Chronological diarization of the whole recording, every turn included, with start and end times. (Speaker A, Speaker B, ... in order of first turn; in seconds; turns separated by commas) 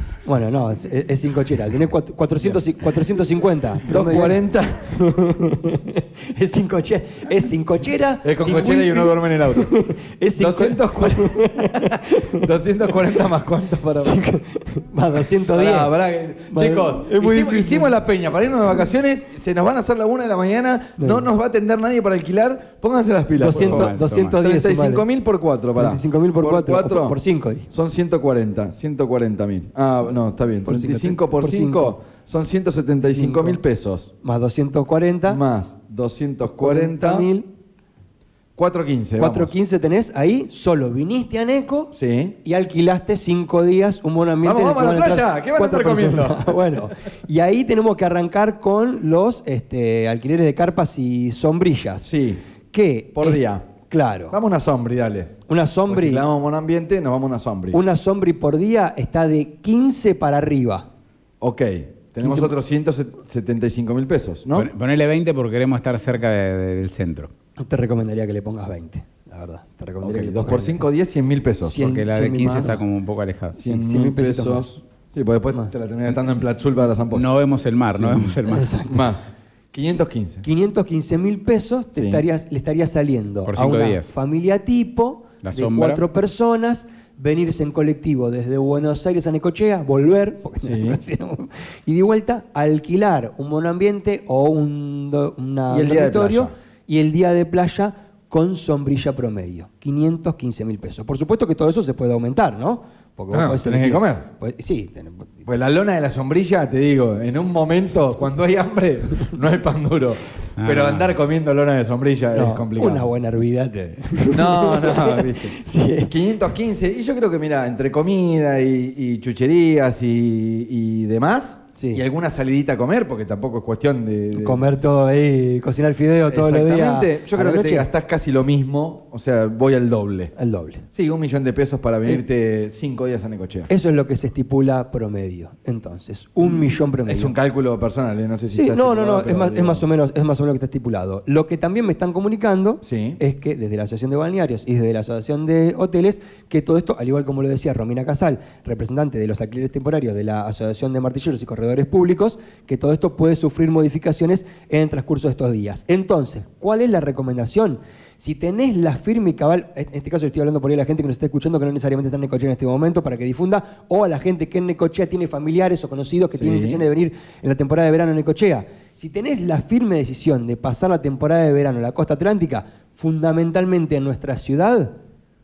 Speaker A: 0.2-13.1, Speaker B: 3.8-4.9, Speaker B: 8.2-9.7, Speaker B: 10.3-14.2, Speaker A: 14.0-15.9, Speaker B: 15.4-27.2, Speaker A: 16.5-18.0, Speaker A: 21.0-21.3, Speaker A: 23.4-25.0, Speaker C: 23.5-24.4, Speaker A: 25.8-27.7, Speaker B: 27.7-34.1, Speaker A: 30.6-31.9, Speaker A: 33.0-33.6, Speaker A: 34.2-35.4, Speaker B: 35.3-37.3, Speaker A: 36.6-37.5, Speaker B: 38.5-39.5, Speaker A: 39.2-52.1, Speaker B: 41.9-42.4, Speaker B: 44.4-46.8, Speaker B: 52.0-52.4, Speaker A: 52.7-54.4, Speaker B: 53.1-53.6, Speaker B: 54.3-55.4, Speaker A: 55.5-56.2, Speaker B: 55.9-57.8, Speaker A: 57.7-60.9, Speaker B: 61.4-64.7, Speaker A: 62.2-62.5, Speaker C: 64.5-67.3, Speaker A: 67.6-70.9, Speaker B: 70.0-71.8, Speaker A: 71.6-72.8, Speaker C: 71.8-73.6, Speaker B: 73.6-77.3, Speaker A: 73.6-74.8, Speaker C: 77.1-78.7, Speaker B: 78.0-80.5, Speaker A: 78.5-79.1, Speaker A: 80.4-105.4, Speaker B: 82.0-82.2, Speaker C: 83.5-84.1, Speaker C: 85.4-86.0, Speaker B: 90.6-91.0, Speaker B: 95.7-96.5, Speaker B: 103.3-104.3, Speaker B: 105.5-113.1, Speaker C: 110.6-111.1, Speaker A: 112.3-116.2, Speaker B: 114.3-124.6, Speaker A: 121.8-122.0, Speaker A: 124.3-127.9, Speaker B: 126.3-130.3, Speaker A: 130.3-130.8, Speaker B: 130.9-133.7, Speaker A: 133.7-137.3, Speaker B: 137.1-139.8, Speaker A: 138.5-174.9, Speaker B: 142.8-143.2, Speaker B: 166.3-166.8